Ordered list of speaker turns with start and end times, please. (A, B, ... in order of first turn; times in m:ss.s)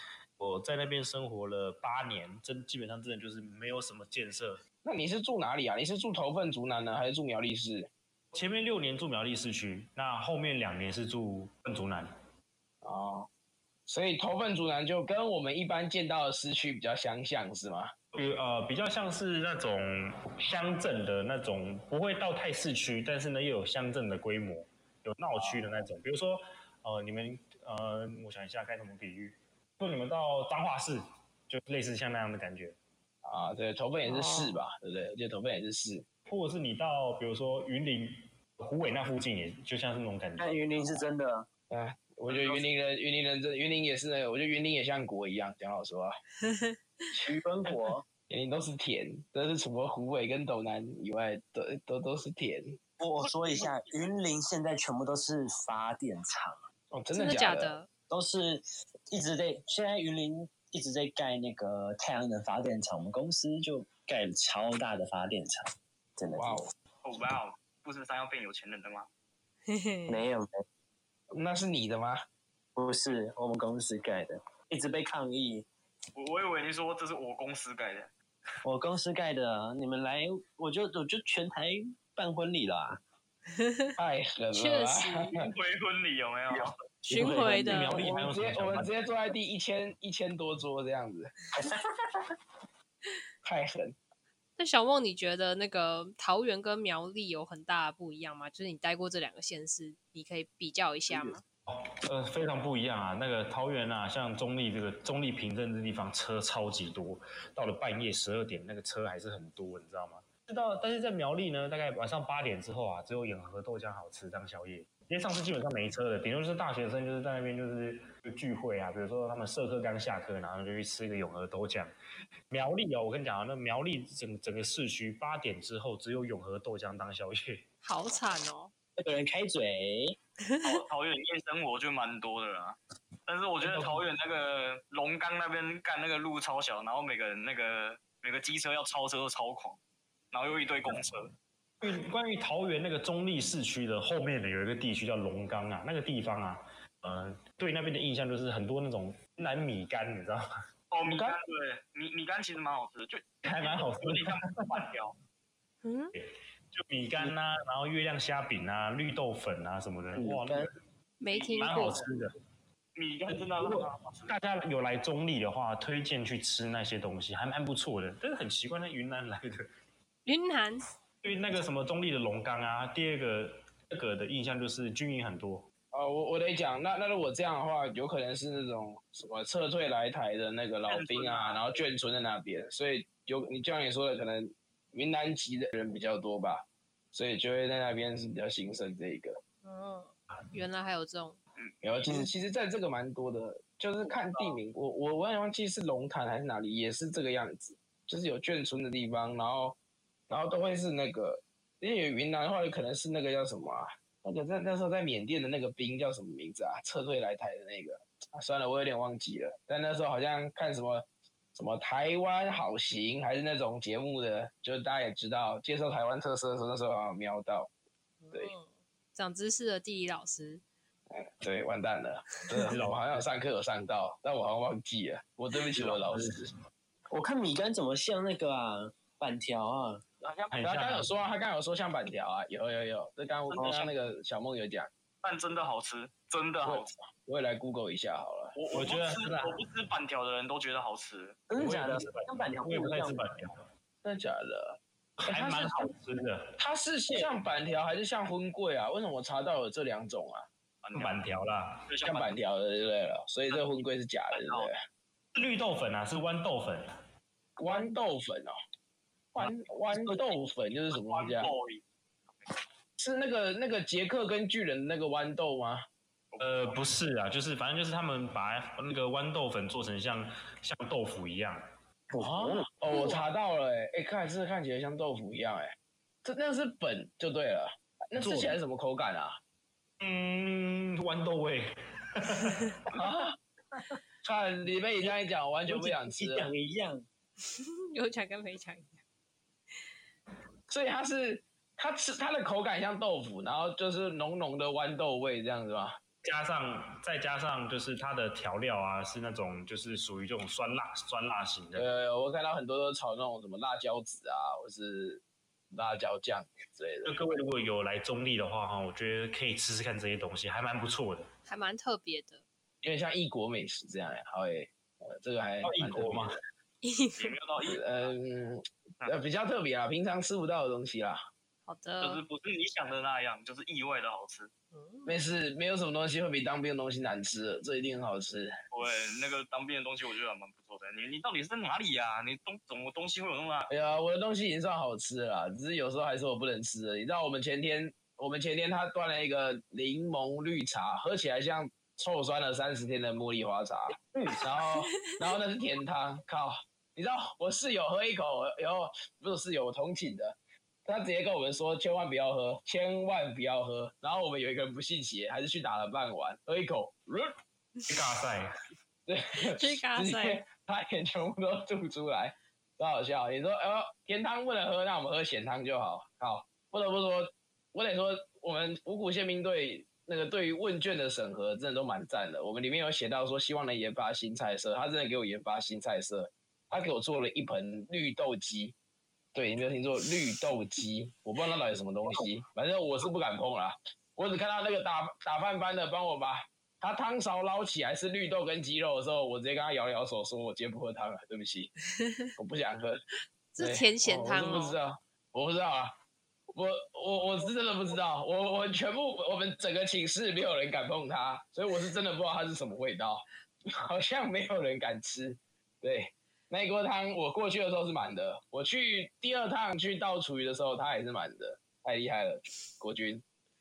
0:00.4-0:04.6 A
0:04.8-0:07.9 B
0:08.3-0:12.1 A
0:12.8-0:13.3 B
0:13.9-0:17.9 B
0:18.1-0:32.8 A
0:25.4-0:25.8 B
0:33.2-0:36.0 B
0:34.0-0:34.6 C
0:36.3-0:41.0 A
0:40.4-0:41.5 D
0:41.7-0:46.1 B
0:42.3-0:42.6 E
0:46.4-0:46.8 C
0:47.2-0:48.0 D
0:48.3-0:52.8 B
0:53.0-0:56.6 D
0:53.2-0:54.1 E
0:56.9-0:57.8 B
0:57.1-0:57.9 C
0:58.1-1:05.6 D
1:06.2-1:06.7 D
1:06.3-1:06.7 B
1:07.0-1:09.1 E
1:09.7-1:10.2 C
1:10.1-1:10.5 D
1:11.3-1:12.2 B
1:12.8-1:15.7 D
1:16.1-1:18.1 E
1:18.6-1:23.0 D
1:23.6-1:23.9 C
1:24.0-1:25.5 B
1:24.5-1:25.3 C
1:25.4-1:26.7 E
1:26.5-1:27.9 D
1:27.1-1:29.0 A
1:27.1-1:28.0 C
1:27.9-1:31.3 B
1:31.6-1:32.3 D
1:33.4-1:33.9 B
1:34.6-1:41.4 C
1:41.1-1:41.4 D
1:41.7-2:01.9 A
2:02.5-2:07.6 A
2:07.8-2:08.7 C
2:09.0-2:10.2 D
2:10.6-2:19.8 E
2:13.6-2:14.0 A
2:20.3-2:21.3 E
2:21.8-2:30.4 A
2:30.9-2:35.2 E
2:31.0-2:31.4 A
2:33.4-2:34.4 A
2:35.8-2:36.1 C
2:36.1-2:40.7 A
2:40.1-2:40.7 D
2:41.2-2:42.0 C
2:41.3-2:41.9 E
2:41.6-2:42.3 A
2:42.9-2:44.3 E
2:43.3-2:49.6 A
2:50.2-2:50.8 C
2:51.2-2:55.7 A
2:55.9-3:09.4 B
3:00.8-3:01.8 E
3:09.6-3:11.4 C
3:11.6-3:12.3 E
3:11.8-3:19.8 B
3:14.0-3:14.6 E
3:20.3-3:37.7 B
3:38.2-3:40.6 C
3:41.1-3:46.5 B
3:42.7-3:43.2 A
3:45.8-3:46.3 A
3:47.1-3:50.0 D
3:50.2-3:50.7 E
3:50.5-3:51.1 A
3:50.6-3:54.9 B
3:53.5-3:53.9 E
3:53.6-3:53.8 D
3:55.2-3:56.9 E
3:56.6-3:58.6 B
3:58.5-4:01.4 E
3:58.7-3:59.6 A
4:01.5-4:03.2 D
4:01.6-4:03.7 A
4:04.0-4:05.9 B
4:05.2-4:06.6 A
4:06.6-4:10.4 B
4:10.8-4:11.3 E
4:11.0-4:11.8 A
4:11.9-4:12.4 E
4:12.0-4:14.8 B
4:13.5-4:13.8 E
4:14.3-4:14.7 E
4:15.3-4:16.9 A
4:17.6-4:18.5 B
4:19.3-4:21.5 B
4:20.9-4:22.5 E
4:23.0-4:25.8 B
4:26.3-4:26.8 E
4:26.4-4:31.6 A
4:32.1-4:32.6 D
4:32.2-4:39.4 B
4:32.9-4:33.2 C
4:38.2-4:38.6 A
4:40.0-4:42.7 A
4:42.9-4:43.4 B
4:44.2-4:46.5 B
4:45.6-4:47.0 D
4:47.5-4:49.0 C
4:50.7-4:56.0 B
4:56.2-5:01.9 A
5:01.8-5:05.2 B
5:05.7-5:07.4 B
5:07.0-5:11.3 A
5:11.4-5:12.4 C
5:12.8-5:16.3 B
5:15.6-5:16.4 A
5:16.8-5:17.3 C
5:17.2-5:18.1 E
5:17.7-5:21.2 B
5:21.6-5:22.2 C
5:22.0-5:24.5 E
5:24.7-5:25.2 C
5:25.0-5:28.5 B
5:28.7-5:33.7 E
5:33.7-5:57.3 B
5:43.9-5:44.5 D
5:57.9-5:58.5 A
5:59.0-6:18.7 B
5:59.5-6:00.4 C
6:19.3-6:31.7 B
6:32.0-6:32.2 C
6:32.4-6:33.0 B
6:33.5-6:34.8 C
6:33.6-6:35.9 B
6:36.5-6:43.2 B
6:43.8-6:53.2 B